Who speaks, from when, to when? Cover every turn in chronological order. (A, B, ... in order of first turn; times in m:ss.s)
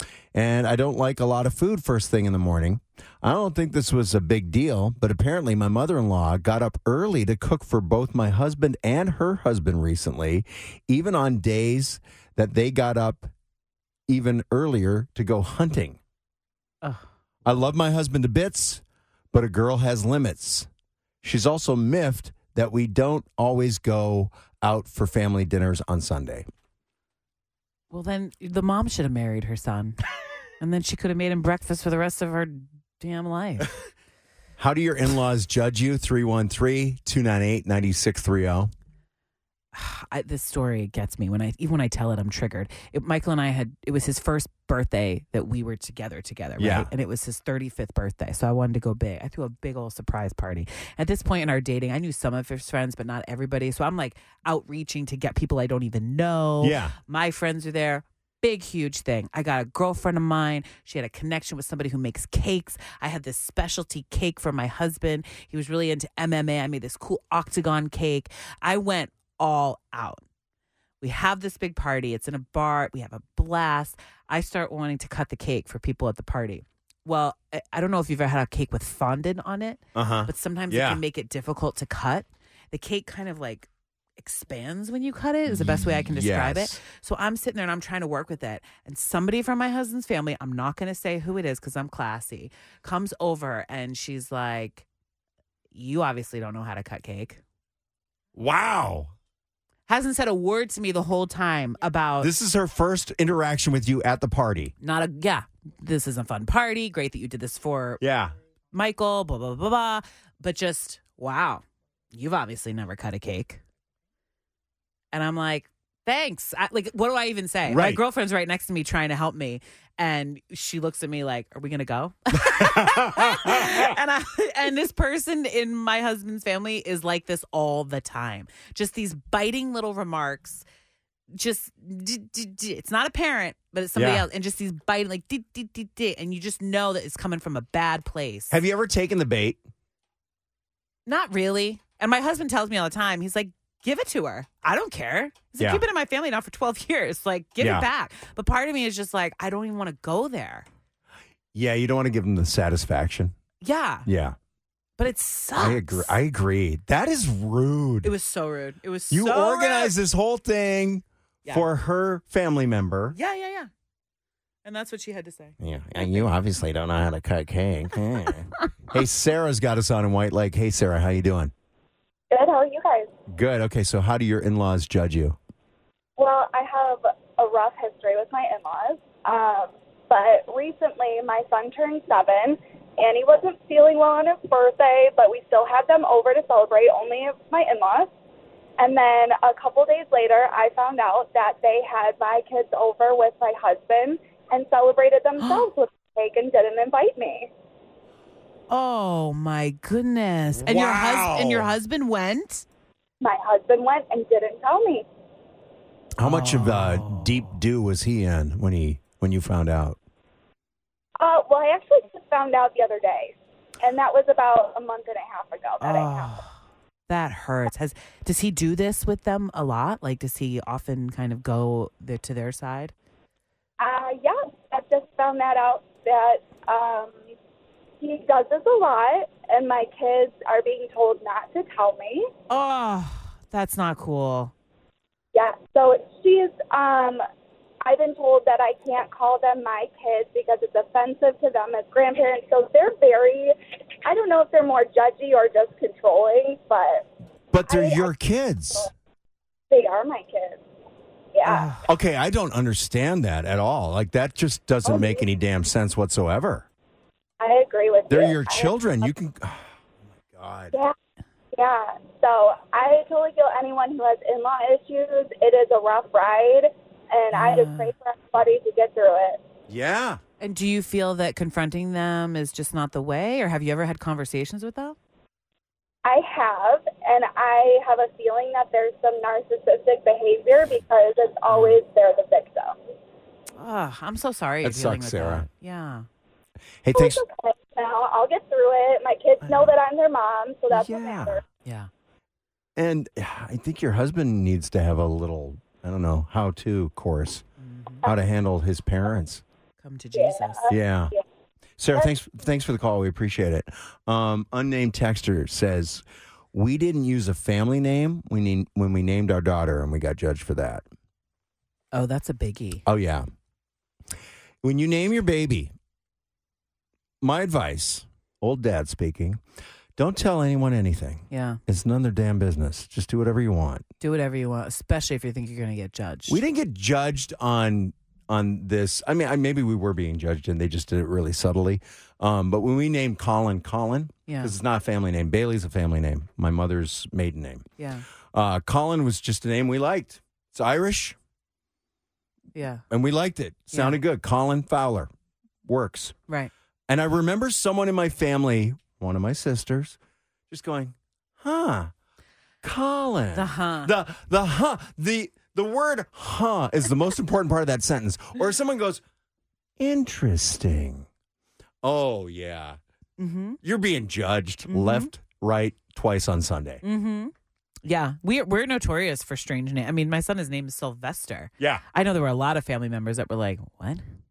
0:00.3-0:13.3 A
0:14.1-0:16.0 A
0:17.4-0:20.7 A
0:21.2-0:26.4 A
0:27.9-0:30.0 B
0:30.6-0:33.7 B
0:34.6-0:38.7 A
0:39.7-1:10.2 B
0:46.6-0:46.9 A
0:56.6-0:56.9 A
1:11.0-1:34.8 B
1:19.9-1:21.0 A
1:25.5-1:26.8 A
1:35.7-1:37.4 B
1:38.3-1:39.1 A
1:39.9-1:42.3 B
1:42.2-1:44.7 A
1:44.8-1:48.0 B
1:48.0-1:48.3 A
1:48.7-1:53.6 B
1:55.1-2:10.6 B
1:57.7-1:58.0 A
2:02.4-2:03.9 A
2:11.4-2:18.5 B
2:13.9-2:14.3 A
2:18.5-2:19.6 A
2:21.0-2:30.7 B
2:27.6-2:27.9 A
2:31.5-2:33.3 A
2:33.6-2:34.1 B
2:34.0-2:34.4 A
2:35.0-2:36.2 B
2:35.6-2:38.1 A
2:38.0-2:39.9 B
2:39.1-2:43.2 A
2:43.1-2:43.7 B
2:44.6-2:46.3 B
2:45.6-2:51.5 A
2:52.3-2:53.1 C
2:53.3-2:55.4 A
2:56.2-3:08.1 C
3:08.8-3:17.5 C
3:15.4-3:15.7 B
3:18.7-3:22.6 B
3:20.6-3:21.7 A
3:23.2-3:25.0 C
3:26.2-3:30.0 A
3:26.2-3:27.6 B
3:31.2-3:36.3 C
3:35.8-3:36.5 B
3:37.1-3:42.9 B
3:43.8-3:47.2 C
3:48.0-3:52.2 C
3:52.5-3:54.5 B
3:55.3-3:57.2 C
3:57.8-4:03.5 C
4:04.0-4:07.0 C
4:07.5-4:08.9 A
4:07.6-4:08.1 C
4:09.7-4:10.6 C
4:11.3-4:11.7 C
4:11.4-4:11.9 B
4:11.8-4:16.7 A
4:14.8-4:15.2 C
4:17.4-4:19.1 C
4:18.1-4:20.7 A
4:21.5-4:29.4 C
4:27.3-4:27.9 B
4:29.7-4:30.2 A
4:30.4-4:35.0 B
4:36.0-4:42.8 C
4:41.5-4:41.8 B
4:43.5-4:46.0 B
4:44.6-4:45.5 A
4:46.8-4:47.2 A
4:46.9-4:51.4 C
4:49.4-4:49.7 A
4:50.7-4:51.4 A
4:52.8-4:57.4 A
4:57.6-4:58.0 B
4:58.0-4:59.4 A
4:59.8-5:00.7 B
5:00.1-5:01.2 C
5:00.7-5:01.1 A
5:01.8-5:10.8 A
5:11.9-5:12.8 B
5:12.8-5:13.2 A
5:14.6-5:15.7 A
5:17.2-5:19.4 A
5:20.0-5:23.8 A
5:21.3-5:21.6 B
5:24.0-5:26.4 B
5:26.3-5:37.6 A
5:34.3-5:34.5 B
5:37.8-5:38.0 B
5:38.3-5:41.2 A
5:42.5-5:42.8 B
5:42.9-5:45.1 A
5:43.7-5:44.0 B
5:45.6-5:46.1 A
5:46.9-5:50.0 A
5:50.5-5:51.9 A
5:52.6-5:59.0 A
5:53.3-5:53.9 B
5:59.8-6:01.1 A
6:01.8-6:02.8 A
6:03.2-6:03.6 B
6:03.6-6:06.8 A
6:04.7-6:05.1 B
6:06.8-6:07.3 B
6:07.8-6:14.0 B